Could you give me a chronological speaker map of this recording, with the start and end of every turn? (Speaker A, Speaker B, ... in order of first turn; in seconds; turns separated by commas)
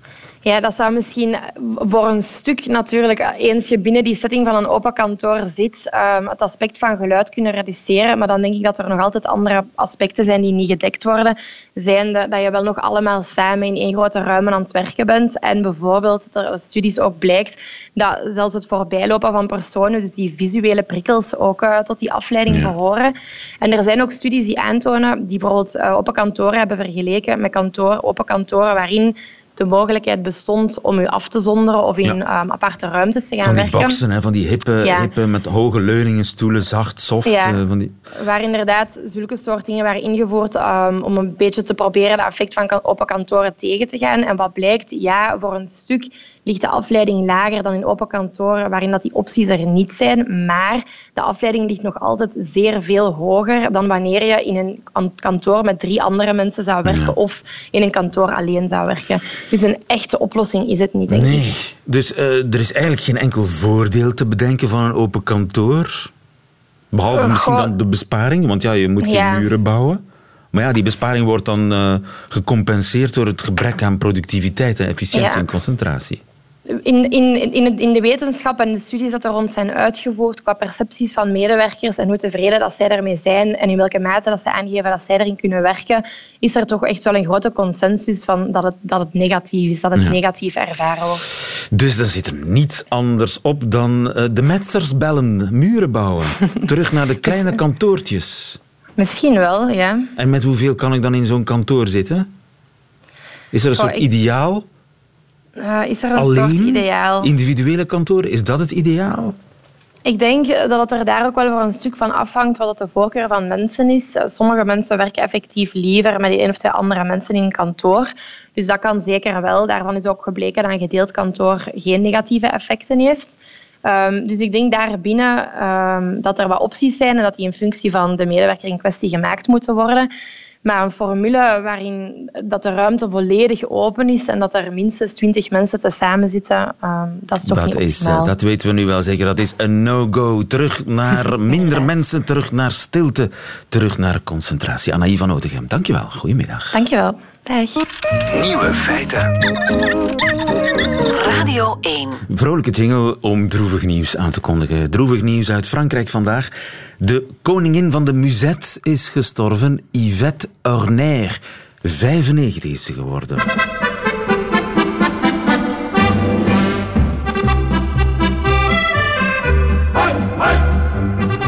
Speaker A: 0.5-34.0, Speaker B: 22.5-22.8, Speaker B: 33.4-38.0, Speaker A: 34.8-35.1, Speaker A: 37.3-37.6, Speaker A: 38.2-61.5, Speaker B: 56.9-57.2, Speaker B: 61.1-66.1, Speaker B: 66.9-70.0, Speaker A: 67.1-67.7, Speaker A: 69.0-69.4, Speaker B: 70.5-76.2, Speaker A: 75.1-75.4, Speaker A: 76.7-91.4, Speaker B: 91.7-98.6, Speaker A: 97.3-97.5, Speaker A: 99.0-100.1, Speaker B: 100.2-102.3, Speaker B: 103.5-104.7, Speaker A: 103.8-104.0, Speaker A: 105.6-107.3, Speaker B: 106.2-109.4, Speaker A: 110.1-130.1, Speaker A: 130.6-138.3, Speaker B: 137.4-146.8, Speaker A: 146.7-147.8, Speaker C: 148.3-149.3, Speaker C: 151.1-152.2, Speaker B: 152.3-163.5